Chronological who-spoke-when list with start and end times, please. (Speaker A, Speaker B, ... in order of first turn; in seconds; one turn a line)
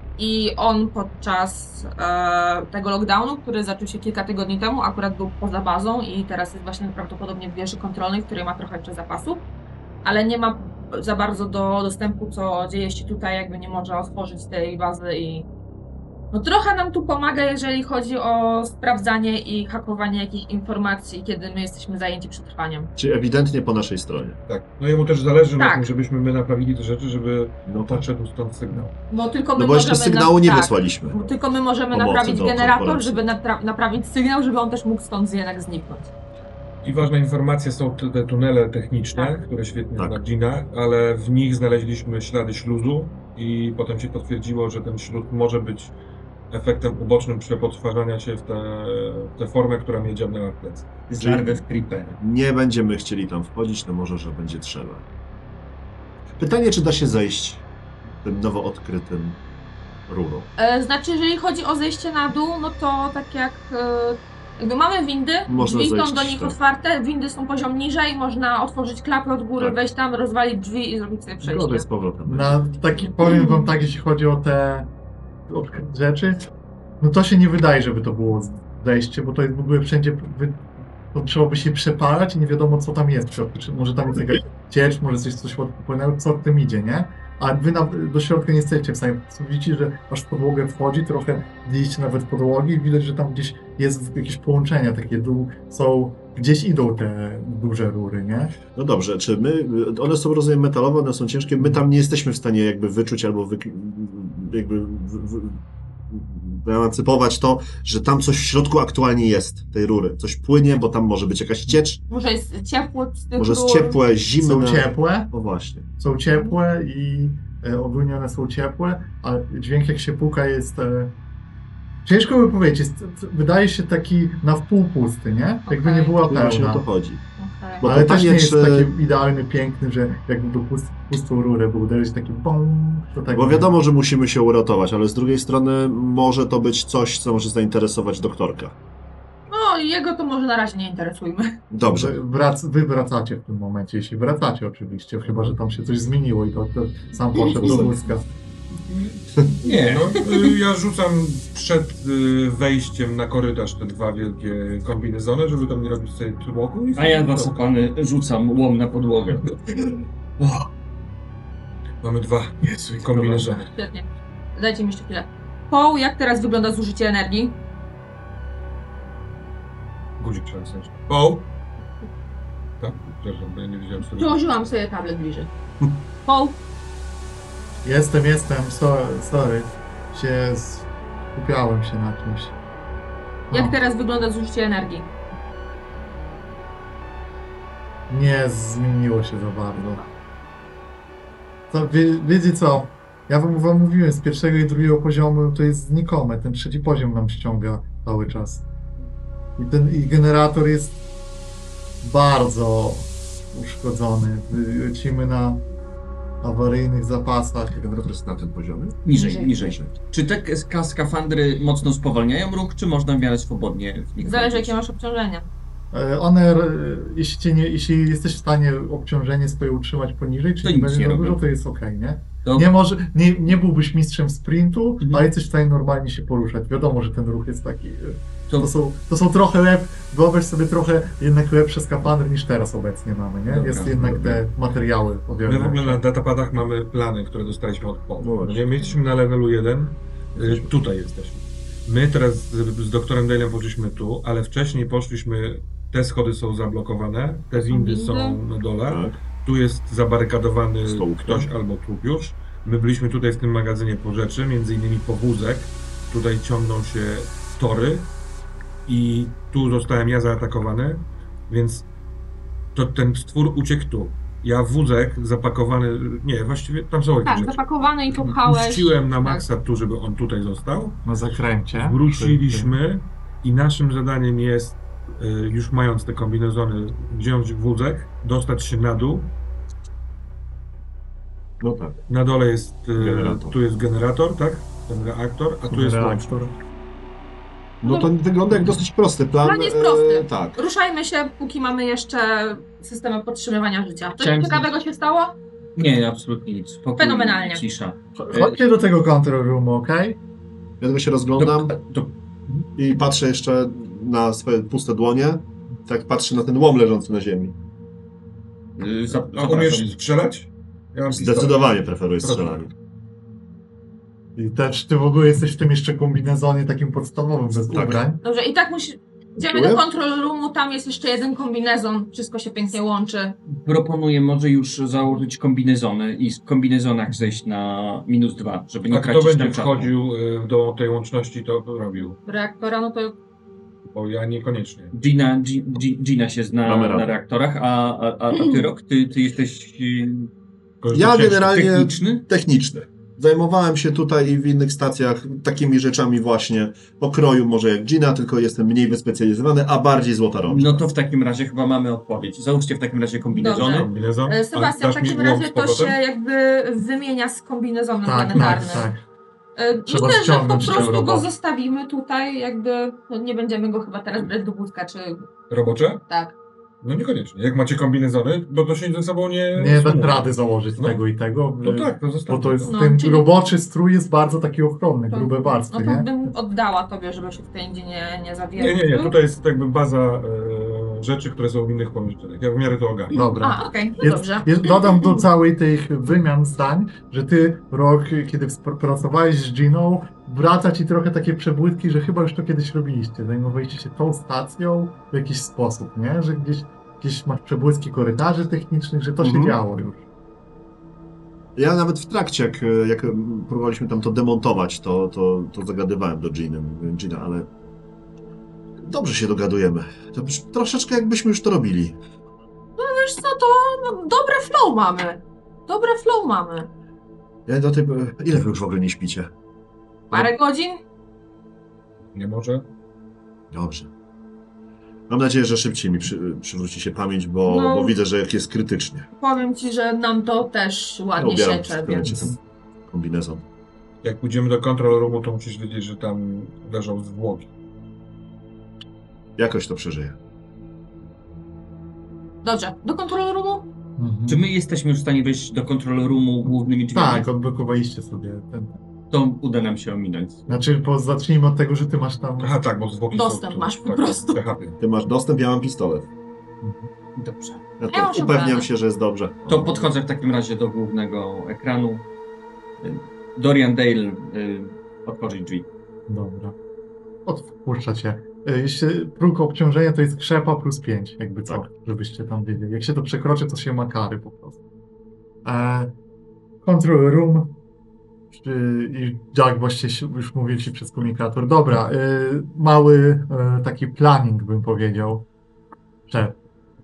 Speaker A: 0.2-9.5
Speaker A: 10.0-15.5
Speaker A: 16.3-22.9
Speaker B: 23.0-24.4
Speaker C: 24.5-28.9
Speaker A: 25.6-25.9
Speaker B: 27.7-28.0
Speaker A: 29.1-36.1
Speaker B: 29.6-31.3
Speaker B: 31.9-33.2
Speaker C: 36.8-45.9
Speaker C: 46.5-50.9
Speaker D: 51.1-52.2
Speaker B: 51.2-51.6
Speaker B: 52.2-55.0
Speaker B: 56.4-57.6
Speaker B: 58.2-59.4
Speaker B: 60.1-60.5
Speaker A: 60.6-71.9
Speaker B: 65.5-66.5
Speaker B: 71.4-72.7
Speaker E: 72.3-74.9
Speaker E: 75.5-76.4
Speaker E: 77.0-98.6
Speaker B: 98.7-112.0
Speaker A: 112.1-114.0
Speaker B: 113.4-115.9
Speaker E: 114.4-115.3
Speaker E: 116.0-121.1
Speaker E: 122.0-126.8
Speaker A: 125.7-126.2
Speaker B: 126.2-127.2
Speaker A: 127.4-127.8
Speaker B: 127.8-128.9
Speaker E: 127.8-133.7
Speaker B: 133.3-138.8
Speaker A: 139.5-141.6
Speaker B: 141.7-142.2
Speaker E: 141.9-148.3
Speaker B: 147.4-147.9
Speaker C: 149.6-157.5
Speaker D: 149.6-150.3
Speaker D: 156.9-159.6
Speaker C: 162.0-163.7
Speaker D: 162.7-163.7
Speaker A: 163.7-167.6
Speaker C: 170.2-171.5
Speaker C: 172.8-174.4
Speaker A: 174.0-175.5
Speaker A: 176.2-176.6
Speaker E: 177.8-182.6
Speaker E: 183.5-183.8
Speaker A: 183.5-185.1
Speaker E: 188.1-190.0
Speaker E: 191.7-198.7
Speaker E: 199.6-201.0
Speaker E: 202.0-205.6
Speaker E: 206.4-207.8
Speaker B: 207.7-209.9
Speaker D: 209.1-214.8
Speaker A: 209.2-209.5
Speaker A: 214.2-215.5
Speaker E: 215.9-236.0
Speaker D: 220.6-221.4
Speaker D: 222.4-222.7
Speaker D: 225.0-225.3
Speaker D: 233.5-234.2
Speaker B: 234.0-234.4
Speaker C: 235.4-258.1
Speaker B: 238.2-238.7
Speaker B: 240.4-240.7
Speaker A: 247.6-248.4
Speaker B: 248.9-249.2
Speaker B: 250.8-251.5
Speaker C: 258.9-261.9
Speaker C: 262.7-271.1
Speaker A: 267.2-269.4
Speaker E: 271.1-272.8
Speaker C: 271.7-279.3
Speaker B: 281.6-282.0
Speaker C: 282.1-286.4
Speaker B: 283.0-283.6
Speaker E: 285.7-286.6
Speaker B: 287.8-290.6
Speaker A: 287.8-288.1
Speaker A: 289.4-295.4
Speaker D: 294.2-294.7
Speaker D: 295.8-298.6
Speaker A: 297.0-297.6
Speaker E: 298.2-300.2
Speaker B: 300.8-301.8
Speaker D: 301.4-302.1
Speaker B: 302.8-307.6
Speaker D: 308.8-309.9
Speaker C: 309.4-311.7
Speaker B: 311.1-312.7
Speaker C: 312.2-312.6
Speaker E: 314.4-318.2
Speaker B: 317.7-318.0
Speaker A: 318.2-323.4
Speaker B: 319.4-319.8
Speaker D: 323.6-329.9
Speaker C: 328.9-332.2
Speaker A: 332.2-333.1
Speaker C: 333.9-334.9
Speaker D: 334.9-340.3
Speaker B: 336.6-337.1
Speaker C: 340.8-341.6
Speaker B: 340.9-350.9
Speaker D: 341.5-342.3
Speaker D: 350.5-353.9
Speaker A: 353.4-358.9
Speaker C: 353.5-356.0
Speaker E: 358.0-359.0
Speaker A: 359.6-365.3
Speaker E: 359.9-361.3
Speaker C: 365.5-366.0
Speaker A: 366.1-366.4
Speaker C: 366.8-371.0
Speaker E: 369.6-376.3
Speaker C: 371.6-372.8
Speaker A: 372.7-373.3
Speaker A: 375.1-379.1
Speaker C: 378.6-383.3
Speaker E: 383.1-400.0
Speaker A: 383.4-385.2
Speaker B: 399.2-399.6
Speaker B: 401.6-407.5
Speaker B: 408.8-412.0
Speaker A: 412.8-416.7
Speaker B: 417.5-419.3
Speaker A: 420.1-420.8
Speaker C: 422.1-422.7
Speaker B: 423.5-423.9
Speaker B: 425.1-429.1
Speaker A: 427.4-428.0
Speaker A: 429.2-432.3
Speaker B: 431.2-433.4
Speaker C: 434.0-437.5
Speaker B: 439.4-440.2
Speaker A: 442.4-443.7
Speaker E: 444.0-444.4
Speaker D: 444.3-447.3
Speaker E: 446.9-448.8
Speaker D: 449.1-450.6
Speaker E: 450.5-452.5
Speaker C: 452.4-454.8
Speaker A: 453.1-454.4
Speaker B: 454.8-456.1
Speaker E: 456.6-456.9
Speaker D: 457.2-457.6
Speaker B: 457.8-459.9
Speaker A: 457.9-458.7
Speaker D: 459.5-462.1
Speaker D: 462.8-465.7
Speaker E: 466.1-466.6
Speaker E: 467.3-474.6
Speaker E: 475.4-476.0
Speaker E: 476.6-477.6
Speaker E: 478.3-485.3
Speaker E: 486.1-486.4